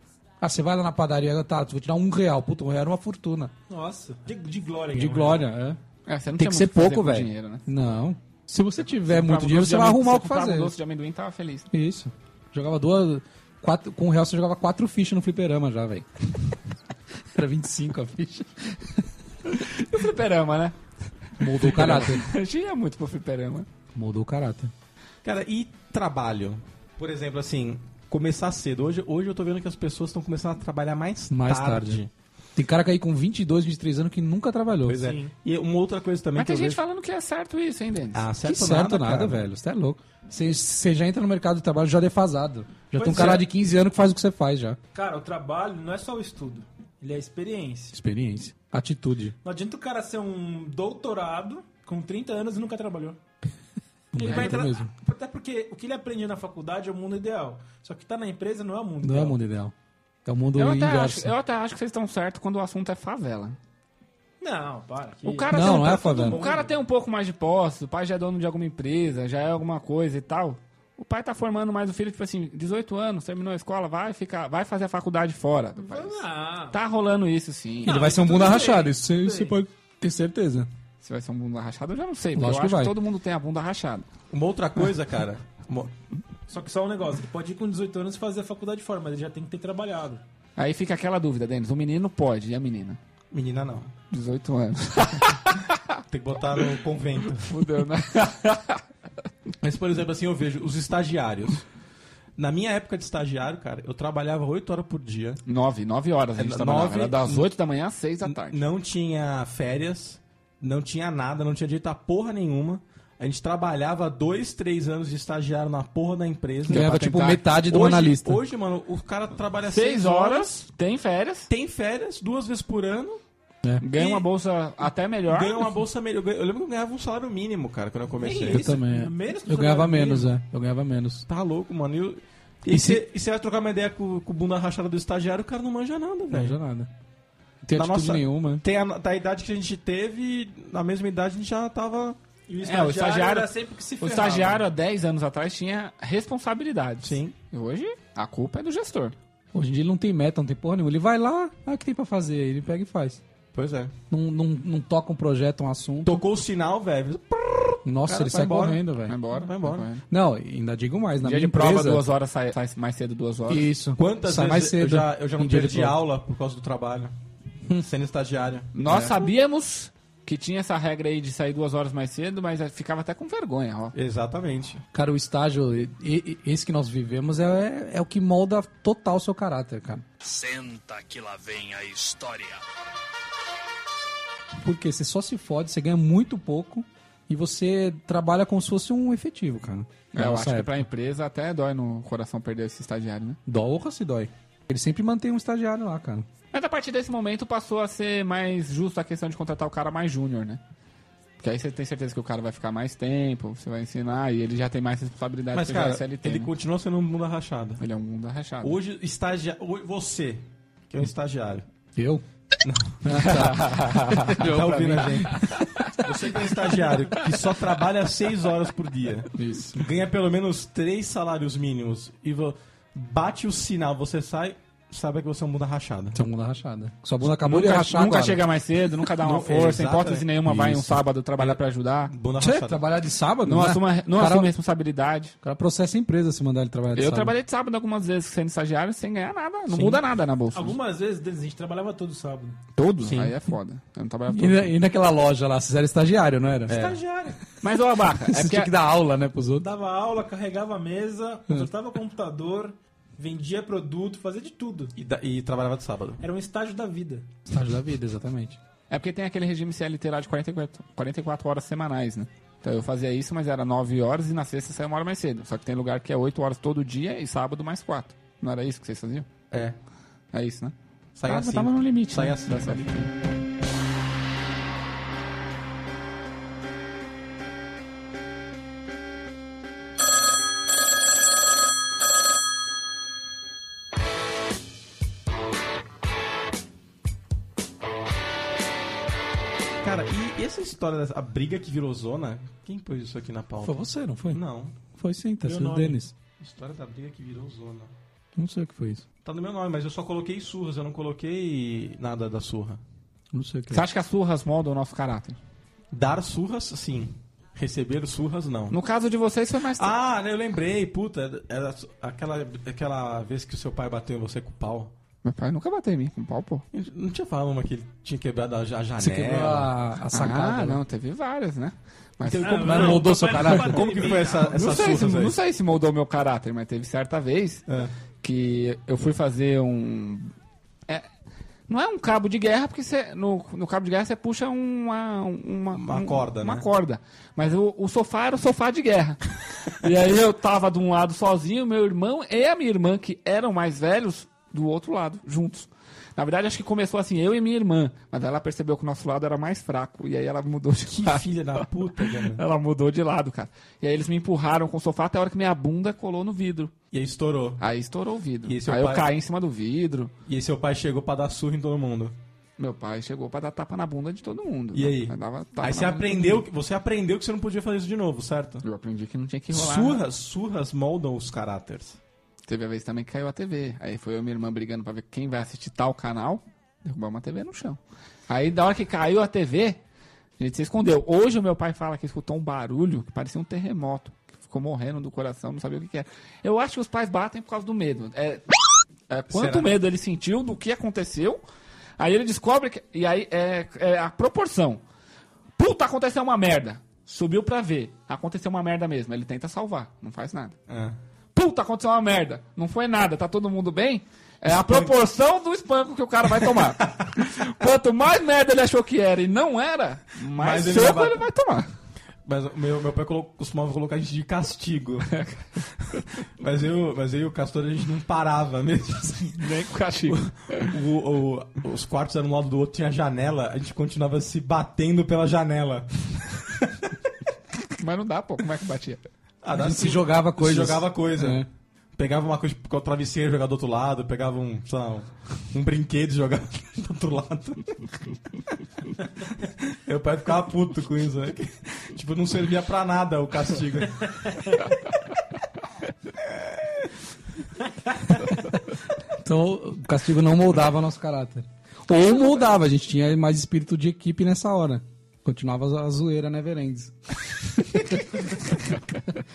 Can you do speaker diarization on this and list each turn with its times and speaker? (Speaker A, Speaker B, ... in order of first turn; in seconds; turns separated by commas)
Speaker A: 0.4-3.5, Speaker B: 3.7-5.5, Speaker A: 4.9-5.8, Speaker C: 6.1-7.6, Speaker A: 6.3-10.7, Speaker C: 9.0-11.7, Speaker A: 11.7-16.5, Speaker A: 17.3-19.1, Speaker C: 19.5-20.8, Speaker C: 21.4-23.6, Speaker A: 21.4-22.3, Speaker A: 23.9-24.7, Speaker D: 25.2-32.1, Speaker A: 31.3-32.0, Speaker A: 32.5-35.0, Speaker D: 34.9-36.8, Speaker B: 35.0-35.3, Speaker C: 36.3-38.2, Speaker D: 38.1-39.5, Speaker A: 38.4-44.8, Speaker B: 42.9-43.5, Speaker D: 43.1-43.4, Speaker B: 44.9-48.0, Speaker A: 47.9-49.3, Speaker B: 49.4-53.2, Speaker A: 54.1-54.9, Speaker B: 54.1-59.4, Speaker A: 59.0-59.7, Speaker A: 60.2-61.3, Speaker C: 60.5-63.6, Speaker B: 64.4-66.7, Speaker C: 65.2-78.0, Speaker A: 65.5-66.4, Speaker B: 75.8-76.8, Speaker A: 77.8-80.7, Speaker B: 77.8-79.6, Speaker C: 81.0-84.1, Speaker A: 82.3-83.0, Speaker D: 84.3-85.9, Speaker B: 86.5-90.2, Speaker C: 90.6-93.0, Speaker D: 93.3-93.9, Speaker C: 94.1-95.8, Speaker D: 96.1-97.5, Speaker C: 97.4-98.8, Speaker D: 99.6-101.6, Speaker D: 102.4-105.4, Speaker C: 105.5-108.6, Speaker D: 106.3-107.5, Speaker D: 108.2-116.9, Speaker A: 116.7-118.4, Speaker C: 116.7-117.5, Speaker D: 117.6-120.5, Speaker C: 119.7-121.5, Speaker D: 121.5-123.2, Speaker C: 123.8-125.7, Speaker D: 123.9-124.2, Speaker D: 125.3-128.6, Speaker B: 128.2-130.3, Speaker A: 128.5-131.2, Speaker D: 131.3-136.6, Speaker A: 132.7-133.0, Speaker A: 136.3-136.9, Speaker A: 137.6-138.6, Speaker D: 137.7-142.2, Speaker B: 142.5-144.7, Speaker C: 142.6-149.1, Speaker D: 147.0-147.3, Speaker A: 149.5-153.2, Speaker D: 153.5-153.9, Speaker A: 154.1-156.2, Speaker D: 156.0-159.9, Speaker A: 157.8-159.2, Speaker C: 159.1-160.0, Speaker A: 160.1-162.1, Speaker C: 161.2-163.7, Speaker A: 163.5-166.0, Speaker D: 163.9-167.1, Speaker D: 167.7-169.3, Speaker C: 168.7-173.9, Speaker D: 173.9-174.8, Speaker A: 174.9-180.1, Speaker E: 180.2-182.6, Speaker A: 184.6-190.8, Speaker C: 190.1-193.4, Speaker A: 193.4-196.2, Speaker C: 196.5-200.6, Speaker C: 201.4-206.5, Speaker D: 205.5-207.8, Speaker C: 207.8-208.8, Speaker D: 208.6-211.7, Speaker A: 211.9-212.2, Speaker D: 212.6-213.5, Speaker A: 213.0-215.5, Speaker C: 213.2-215.8, Speaker D: 214.2-226.2, Speaker A: 219.3-219.8, Speaker A: 226.1-228.4, Speaker C: 227.3-232.1, Speaker D: 229.2-230.8, Speaker D: 231.4-232.8, Speaker A: 232.4-234.5, Speaker C: 233.4-235.3, Speaker A: 235.4-237.3, Speaker C: 236.9-240.8, Speaker B: 240.5-242.6, Speaker C: 242.8-244.7, Speaker D: 243.0-243.3, Speaker A: 244.3-246.8, Speaker D: 246.7-247.0, Speaker B: 246.7-247.4, Speaker C: 247.6-248.7, Speaker A: 248.2-249.7, Speaker B: 249.6-254.9, Speaker D: 254.9-256.2, Speaker B: 256.2-257.3, Speaker A: 257.5-258.6, Speaker C: 258.9-269.3, Speaker D: 269.5-269.8, Speaker C: 270.3-270.7, Speaker D: 271.1-272.9, Speaker C: 271.2-273.1, Speaker D: 289.8-294.7, Speaker A: 293.6-294.4, Speaker A: 294.9-296.1, Speaker B: 295.4-296.0, Speaker D: 296.4-297.9, Speaker A: 298.4-299.0, Speaker D: 299.2-302.8, Speaker A: 303.3-303.8, Speaker C: 303.7-305.4, Speaker D: 305.9-308.7, Speaker C: 308.7-309.9, Speaker D: 309.8-314.9, Speaker C: 315.2-316.6, Speaker D: 316.7-319.7, Speaker A: 319.0-320.8, Speaker C: 320.1-323.0, Speaker A: 322.2-324.0, Speaker B: 322.4-324.7, Speaker D: 322.7-325.4, Speaker C: 324.3-327.6, Speaker C: 328.2-330.3, Speaker C: 331.7-356.7, Speaker D: 335.7-336.7, Speaker D: 350.9-352.4, Speaker D: 356.9-357.6, Speaker C: 357.6-360.1, Speaker D: 358.4-359.1, Speaker D: 360.2-362.1, Speaker C: 362.6-366.4, Speaker D: 364.7-368.6, Speaker C: 368.6-370.0, Speaker D: 369.5-372.0, Speaker C: 372.5-379.8, Speaker C: 380.4-388.4, Speaker C: 389.1-391.4, Speaker D: 389.3-389.8, Speaker C: 392.0-394.8, Speaker C: 395.6-400.6, Speaker D: 400.7-401.0, Speaker C: 401.3-411.7, Speaker D: 404.5-404.9, Speaker D: 410.4-411.2, Speaker D: 412.2-415.1, Speaker D: 416.4-419.4, Speaker C: 419.4-420.7, Speaker D: 420.1-426.4, Speaker C: 427.8-429.0, Speaker D: 429.4-431.4, Speaker A: 429.5-431.5, Speaker D: 431.9-437.9, Speaker D: 439.4-444.6, Speaker A: 449.1-456.9, Speaker A: 457.6-458.8